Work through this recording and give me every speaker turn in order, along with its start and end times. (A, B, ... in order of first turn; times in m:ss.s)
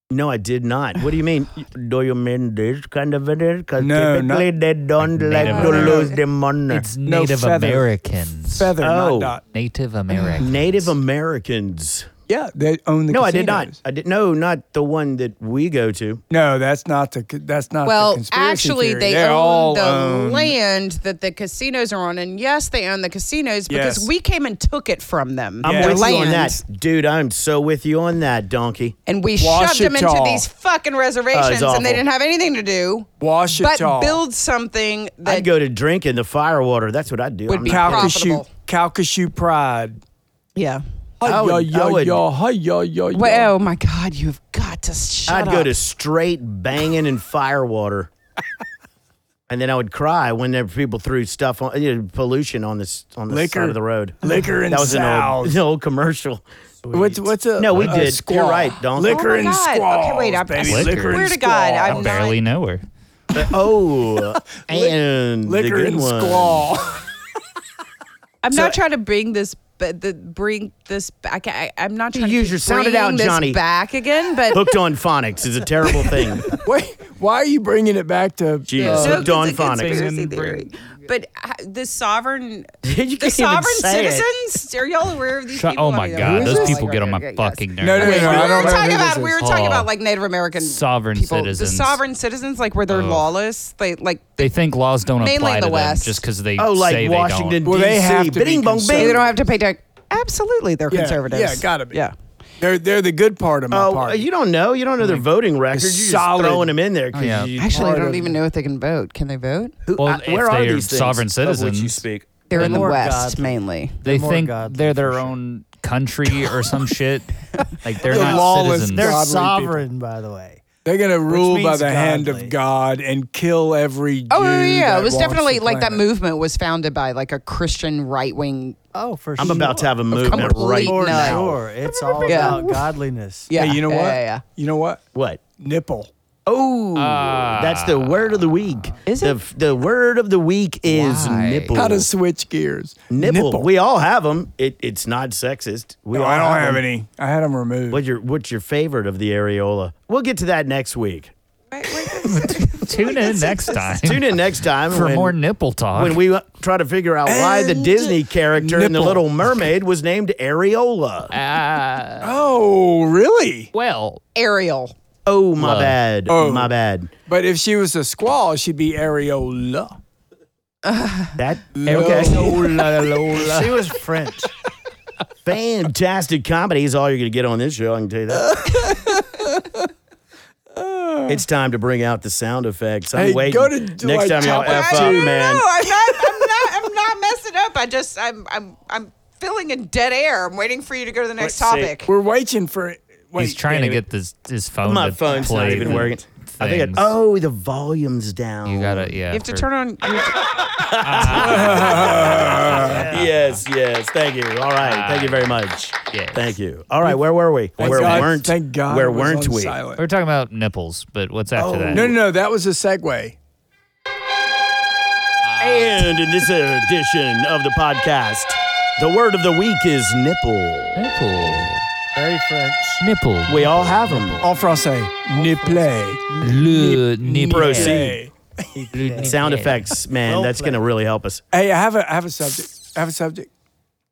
0:00.1-0:06.9 A
0:03.8-0:04.5 B
0:05.0-0:06.1 C
0:05.4-0:06.2 D
0:05.6-0:06.0 B
0:06.7-0:08.7 C
0:07.0-0:07.9 B
0:08.4-0:09.4 B
0:08.8-0:09.4 A
0:09.5-0:10.9 C
0:10.4-0:12.1 A
0:12.3-0:13.8 B
0:13.1-0:16.2 A
0:16.3-0:20.6 B
0:17.8-0:26.6 D
0:23.7-0:24.1 B
0:25.6-0:29.0 A
0:25.6-0:26.3 B
0:29.1-0:35.5 D
0:29.4-0:30.4 B
0:31.3-0:32.0 A
0:33.2-0:34.2 B
0:35.2-0:38.2 A
0:37.5-0:38.5 D
0:37.6-0:40.0 B
0:40.6-0:40.8 D
0:41.2-0:43.5 B
0:41.2-0:42.2 A
0:43.1-0:45.8 D
0:45.3-0:48.1 A
0:49.5-0:59.5 A
0:53.3-0:55.6 B
0:56.9-1:02.1 B
0:59.0-1:02.4 D
1:00.6-1:01.3 C
1:01.8-1:02.8 C
1:03.3-1:06.7 A
1:04.6-1:04.9 B
1:05.4-1:07.0 B
1:08.4-1:14.7 D
1:08.5-1:08.8 A
1:12.1-1:13.6 A
1:14.5-1:16.5 A
1:16.6-1:19.3 B
1:18.7-1:20.1 A
1:18.8-1:22.7 D
1:19.0-1:20.7 C
1:22.8-1:24.3 A
1:23.2-1:34.5 D
1:25.5-1:29.9 C
1:26.2-1:26.8 B
1:27.8-1:29.4 B
1:30.6-1:32.0 C
1:32.9-1:33.3 C
1:34.4-1:37.6 C
1:35.2-1:36.2 D
1:36.6-1:39.3 A
1:37.6-1:39.2 B
1:39.0-1:42.1 D
1:40.9-1:42.0 B
1:42.6-1:44.3 B
1:43.7-1:48.0 A
1:45.0-1:46.8 B
1:47.1-1:47.5 C
1:47.6-1:49.8 D
1:47.7-1:48.4 B
1:49.9-1:52.3 A
1:50.0-1:52.0 C
1:52.5-1:54.0 D
1:52.5-1:55.3 E
1:52.6-1:52.9 C
1:54.0-1:59.1 C
1:58.0-1:59.8 B
1:58.1-2:00.6 E
2:00.8-2:06.0 B
2:01.3-2:02.6 E
2:04.3-2:08.8 D
2:08.9-2:13.5 E
2:09.4-2:11.6 A
2:09.4-2:12.9 D
2:12.2-2:12.6 B
2:13.5-2:14.4 D
2:13.6-2:15.0 B
2:15.1-2:15.4 A
2:15.6-2:16.1 B
2:16.5-2:22.1 A
2:17.0-2:18.4 C
2:19.1-2:19.4 D
2:20.9-2:21.8 C
2:21.7-2:23.7 B
2:23.1-2:26.8 A
2:26.1-2:28.0 B
2:27.9-2:31.3 A
2:31.7-2:34.0 D
2:32.2-2:34.3 C
2:34.0-2:35.4 A
2:34.9-2:36.2 C
2:36.0-2:41.3 A
2:37.2-2:39.3 B
2:41.3-2:42.4 C
2:42.2-2:43.7 B
2:43.7-2:44.2 C
2:44.4-2:45.0 D
2:45.3-2:47.1 A
2:45.6-2:46.0 C
2:46.3-2:50.0 B
2:50.8-2:51.4 D
2:51.4-2:52.7 A
2:51.8-2:53.4 B
2:52.0-2:52.4 E
2:52.5-2:53.8 C
2:53.3-2:54.5 E
2:55.4-2:58.6 A
2:58.3-2:59.9 B
3:00.8-3:01.4 B
3:01.3-3:05.7 A
3:03.1-3:05.4 B
3:04.4-3:12.1 D
3:11.4-3:12.0 A
3:12.0-3:13.6 B
3:13.4-3:17.1 C
3:13.5-3:14.0 A
3:14.8-3:19.2 A
3:18.7-3:19.7 C
3:19.3-3:20.6 D
3:20.2-3:29.8 A
3:21.0-3:23.6 C
3:21.3-3:23.0 B
3:24.8-3:26.6 C
3:27.8-3:30.0 B
3:27.8-3:28.2 C
3:30.0-3:32.1 C
3:31.6-3:32.2 A
3:31.9-3:33.4 B
3:35.4-3:36.0 C
3:35.6-3:41.1 A
3:41.0-3:41.8 C
3:42.1-3:43.0 E
3:43.0-3:44.4 C
3:43.5-3:44.5 A
3:44.4-3:48.4 B
3:45.3-3:46.5 E
3:46.4-3:48.1 C
3:47.5-3:48.2 A
3:48.8-3:49.6 E
3:48.9-3:49.9 C
3:49.2-3:51.4 A
3:50.2-3:50.9 E
3:51.5-3:53.5 B